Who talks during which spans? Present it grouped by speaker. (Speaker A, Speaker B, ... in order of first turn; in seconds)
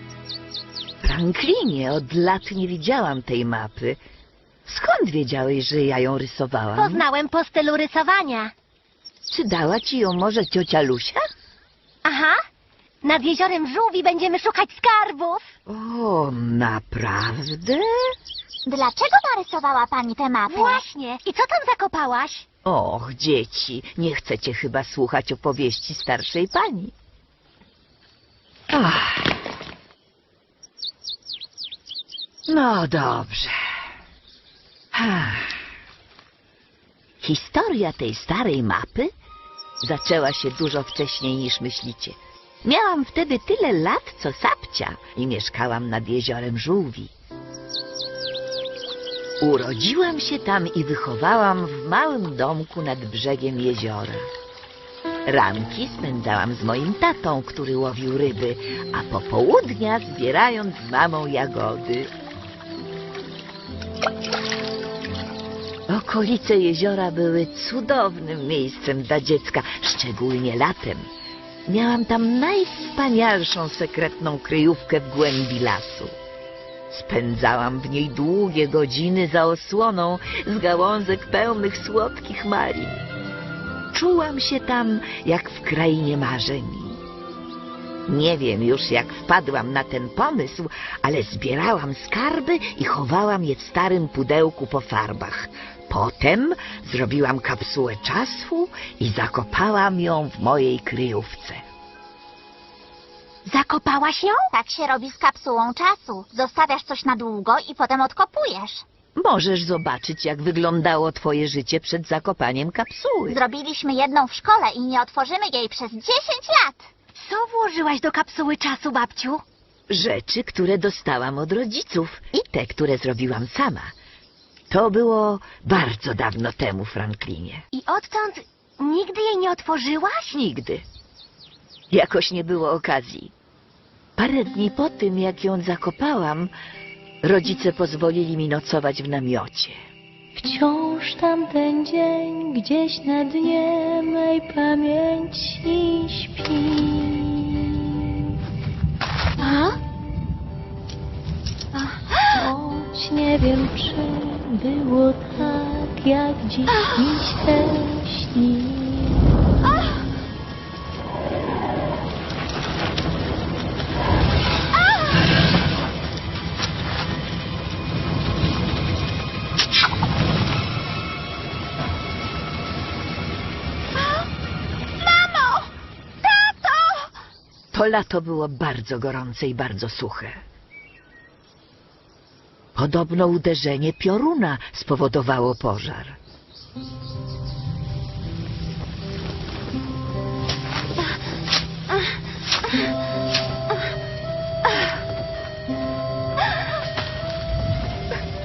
Speaker A: 1.0-4.0, 4.7-7.0, 9.3-11.2, 15.7-18.1, 22.6-26.9, 28.7-29.3, 32.5-33.5, 34.9-35.6, 37.2-39.1, 39.8-47.1, 49.4-54.3, 55.3-62.1, 65.9-71.1, 71.7-76.2, 76.9-83.0, 83.9-87.0, 88.1-101.6, 109.2-113.4, 119.9-123.9, 124.7-127.6, 130.3-130.8, 131.9-133.3, 134.2-136.5, 137.2-139.8, 177.7-180.4, 182.7-186.2
Speaker B: 6.8-8.5, 12.0-12.4, 13.0-15.4, 20.5-22.4, 103.5-104.4, 117.2-119.4, 127.7-130.3, 149.4-149.8
Speaker C: 18.6-20.8, 104.5-108.8, 113.3-116.9
Speaker D: 140.3-148.0, 152.3-159.2